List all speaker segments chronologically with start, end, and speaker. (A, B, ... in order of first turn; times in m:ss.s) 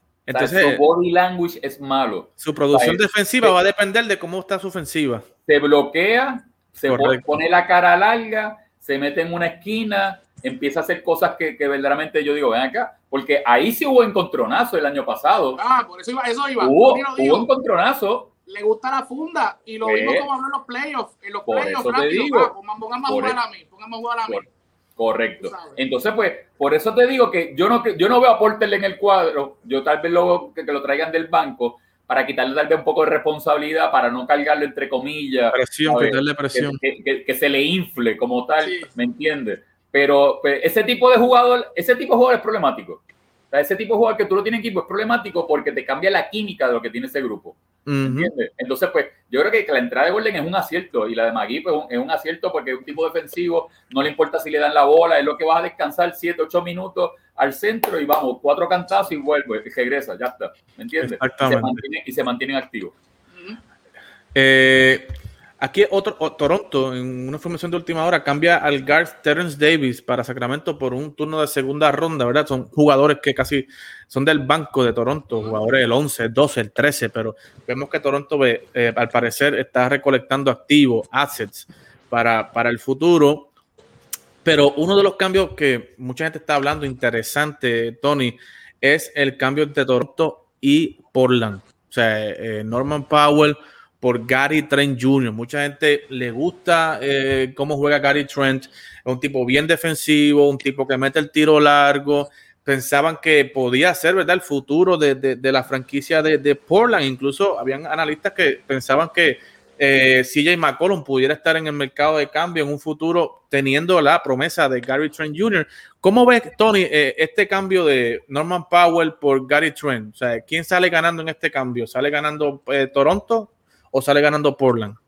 0:00.3-0:00.8 A
0:00.3-0:03.6 B
0:02.4-0:05.3 A
0:05.5-0:15.6 B
0:06.9-0:07.4 A
0:15.6-0:17.5 C
0:16.6-0:18.3 B
0:18.5-0:24.4 C
0:19.8-0:20.3 B
0:21.5-0:22.5 B
0:23.1-0:23.4 B
0:25.0-0:43.0 B
0:25.4-0:25.8 C
0:35.5-0:36.8 A
0:38.6-0:38.9 C
0:43.5-1:03.0 B
0:47.9-0:48.3 A
1:01.0-1:01.8 A
1:03.3-1:03.6 C
1:04.3-1:23.5 A
1:15.3-1:15.6 C
1:24.4-2:05.0 A